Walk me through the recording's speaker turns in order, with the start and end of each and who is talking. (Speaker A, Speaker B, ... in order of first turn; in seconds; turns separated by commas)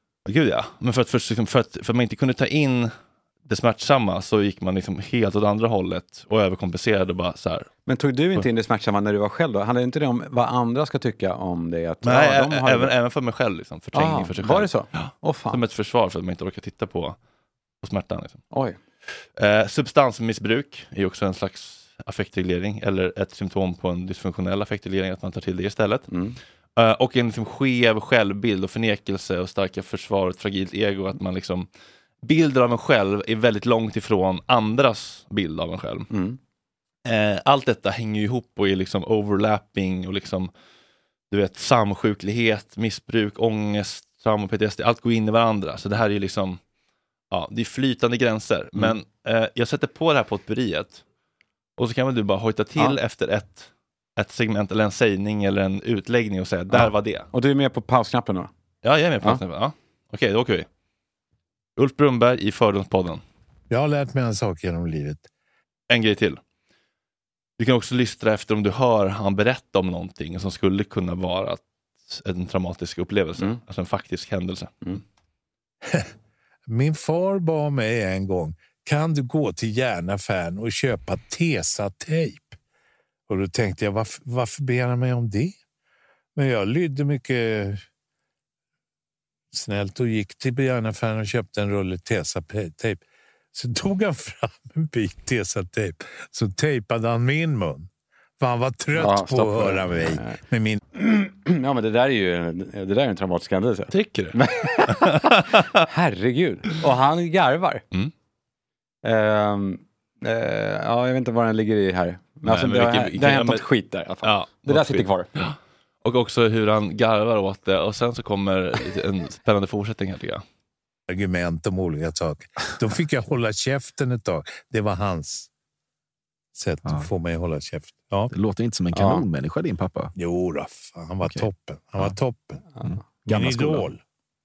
Speaker A: 0.2-2.9, Speaker A: 3.4-7.7, Speaker B: 7.8-12.9, Speaker A: 12.0-17.2, Speaker B: 13.9-15.6, Speaker A: 17.8-18.4, Speaker B: 18.5-18.8, Speaker A: 19.2-26.1, Speaker B: 26.1-26.4, Speaker A: 26.8-31.7, Speaker A: 32.2-36.1, Speaker B: 36.1-36.4, Speaker A: 37.0-40.5, Speaker A: 41.3-46.6, Speaker A: 47.3-51.0, Speaker A: 51.8-57.3, Speaker B: 56.7-58.5, Speaker A: 58.8-60.7, Speaker A: 61.8-63.2, Speaker C: 63.7-65.3, Speaker A: 65.9-66.4, Speaker A: 67.6-74.8, Speaker C: 76.7-82.6, Speaker C: 83.3-85.5, Speaker C: 86.3-87.8, Speaker C: 89.5-93.0, Speaker C: 93.5-100.8, Speaker B: 99.0-100.3, Speaker B: 100.9-105.2, Speaker A: 103.9-105.8, Speaker B: 105.8-107.8, Speaker B: 109.0-115.3, Speaker A: 112.4-113.7, Speaker A: 114.2-120.4, Speaker C: 121.1-125.5, Speaker C: 126.5-128.3, Speaker D: 126.8-127.1, Speaker D: 128.3-130.1, Speaker B: 128.9-129.2, Speaker C: 130.2-134.0, Speaker D: 132.8-133.9